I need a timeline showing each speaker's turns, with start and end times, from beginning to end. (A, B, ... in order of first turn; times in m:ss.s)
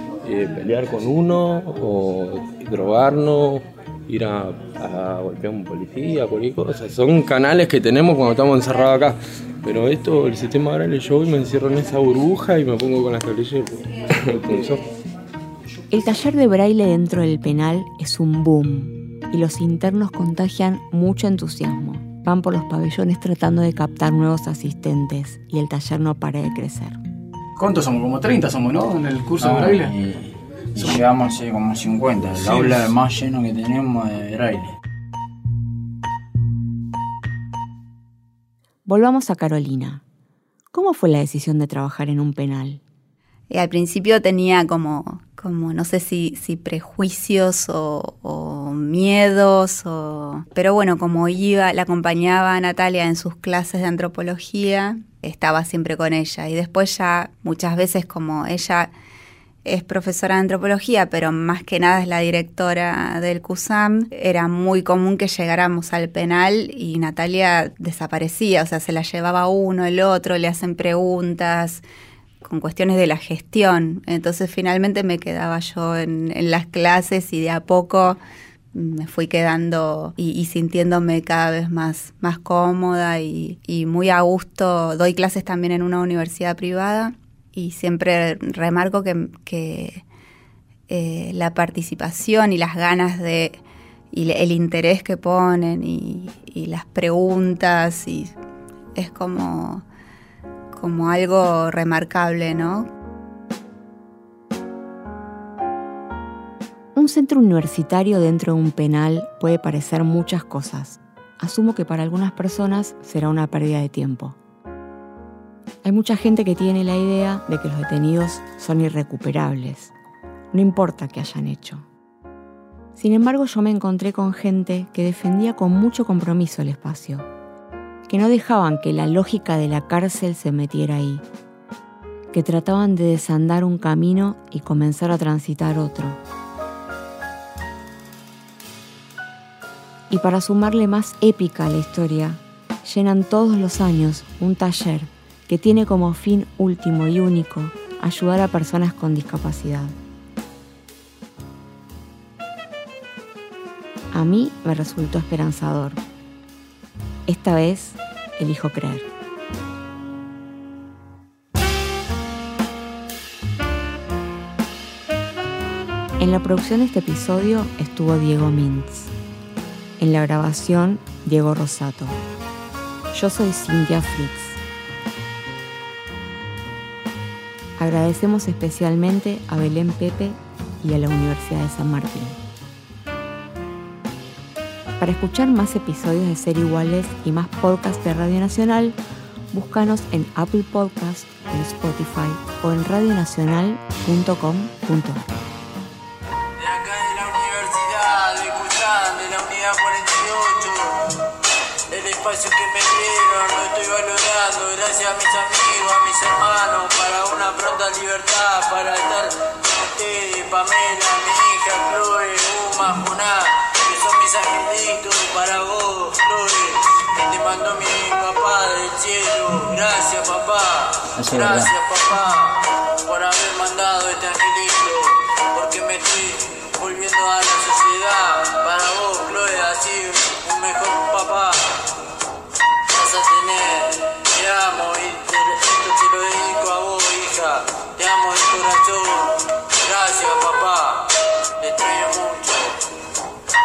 0:00.2-0:14.8 A
0:15.9-0:27.0 B
0:27.6-0:30.0 C
0:29.4-0:34.8 D
0:32.4-0:32.9 C
0:38.8-0:40.0 B
0:40.7-0:42.8 B
0:43.5-0:58.9 E
0:59.6-1:11.8 E
1:12.4-1:18.2 E
1:18.7-1:30.0 E
1:30.9-1:33.6 E
1:34.1-1:38.3 E
1:39.0-1:39.8 E
1:40.7-1:42.9 E
1:47.0-1:54.4 B
1:55.8-1:59.9 B
2:00.5-2:01.9 B
2:03.0-2:07.3 B
2:08.1-2:11.2 B
2:12.3-2:16.2 B
2:20.1-2:30.0 B
2:34.1-2:36.0 B
2:37.3-2:39.1 B
2:46.2-2:49.1 B
2:50.0-2:52.2 B
2:53.1-2:54.6 B
2:57.8-3:02.4 B
3:05.0-3:09.0 B
3:09.5-3:15.3 B
3:16.6-3:21.0 F
3:21.9-3:51.7 F
3:41.2-3:41.7 D
3:52.9-4:01.1 F
4:01.6-4:02.8 F